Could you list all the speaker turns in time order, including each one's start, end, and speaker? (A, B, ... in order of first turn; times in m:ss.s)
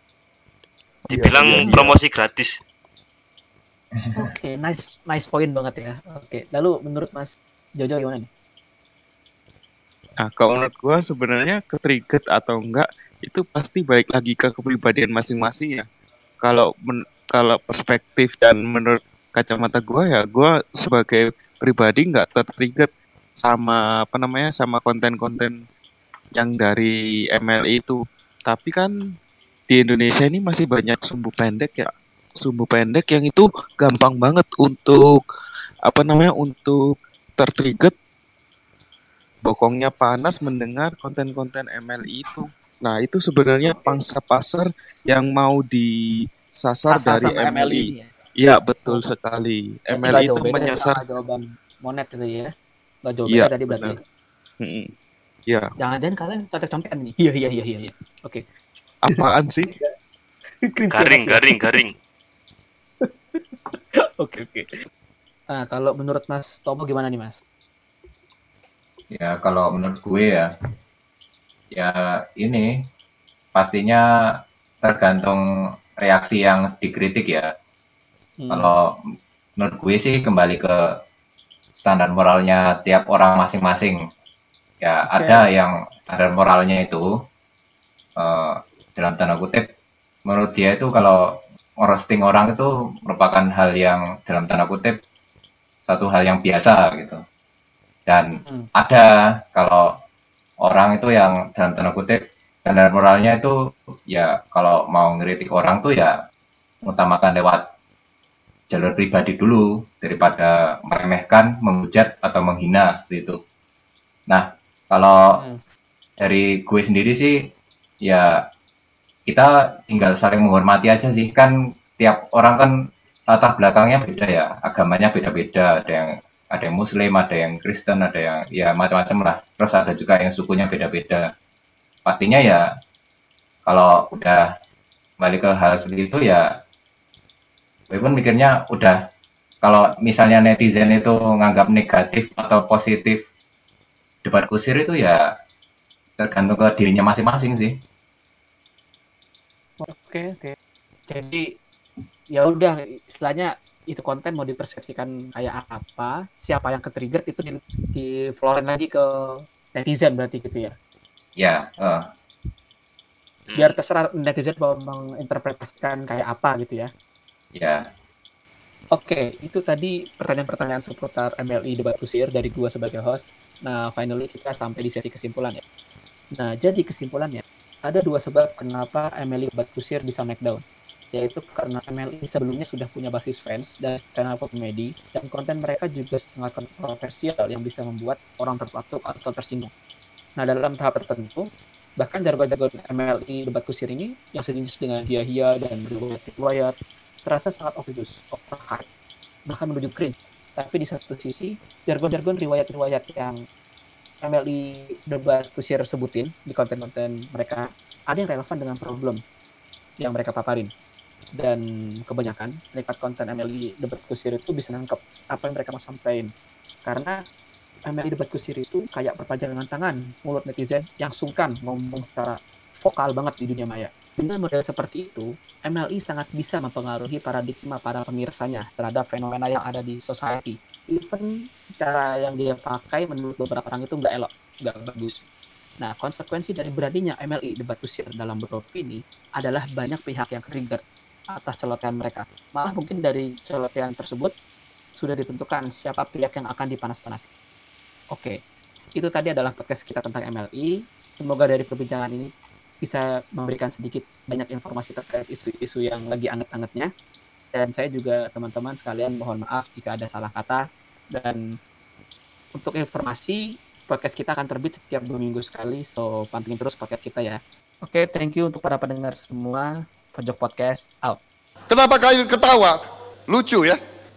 0:01.1-0:02.6 A
0:01.1-0:02.0 B
0:01.4-0:01.8 C
0:04.0-0:04.3 D
0:04.2-0:08.3 C
0:10.2-0:15.8 B
0:16.4-0:25.6 B
0:26.4-0:28.9 B
0:29.7-0:31.9 B
0:32.4-0:35.0 B
0:35.9-0:36.8 B
0:37.4-0:37.9 B
0:39.4-0:45.9 B
0:43.7-0:44.0 C
0:46.6-0:51.0 B
0:46.9-0:48.1 C
0:49.9-0:52.5 C
0:53.0-0:54.0 C
0:53.3-0:54.0 B
0:54.6-0:54.9 B
0:55.8-0:58.4 C
0:59.0-0:59.7 B
0:59.2-0:59.9 C
1:00.6-1:01.8 C
1:00.9-1:01.9 A
1:03.0-1:04.7 C
1:05.5-1:07.4 C
1:09.1-1:10.5 D
1:11.7-1:12.7 D
1:13.6-1:14.0 D
1:14.8-1:15.4 D
1:16.0-1:17.5 D
1:18.4-1:18.8 C
1:18.5-1:18.9 D
1:19.6-1:20.8 D
1:21.8-1:24.0 D
1:24.8-1:27.1 D
1:25.1-1:25.4 C
1:28.2-1:29.6 D
1:30.3-1:35.0 D
1:35.9-1:37.2 D
1:38.1-1:39.9 D
1:38.4-1:38.7 C
1:40.6-1:43.5 D
1:44.1-1:46.2 D
1:46.9-1:47.6 D
1:48.7-1:53.4 D
1:54.3-1:55.2 D
1:55.3-1:55.6 C
1:56.2-1:57.4 D
1:58.0-1:58.3 D
1:59.3-2:02.7 D
2:03.3-2:11.2 D
2:12.1-2:12.6 D
2:13.7-2:14.4 D
2:15.2-2:16.5 D
2:17.9-2:19.0 D
2:19.6-2:23.2 D
2:24.2-2:25.2 D
2:26.2-2:27.8 D
2:29.8-2:30.6 C
2:31.1-2:31.4 C
2:32.3-2:40.7 C
2:41.4-2:42.1 D
2:43.5-2:43.8 A
2:43.6-2:46.9 C
2:47.6-2:47.8 D
2:48.9-2:55.6 C
2:56.4-3:00.6 C
3:01.1-3:09.7 C
3:10.4-3:11.5 C
3:12.0-3:16.8 C
3:17.3-3:18.9 C
3:19.5-3:23.4 C
3:24.2-3:29.2 C
3:30.0-3:30.7 C
3:31.4-3:36.3 C
3:36.9-3:37.2 C
3:37.9-3:55.2 C
3:55.8-4:00.8 C
4:01.3-4:04.3 C
4:05.0-4:07.3 C
4:09.0-4:12.3 C
4:12.8-4:16.9 C
4:17.5-4:20.6 C
4:21.1-4:21.4 C
4:22.6-4:31.2 C
4:31.7-4:33.8 E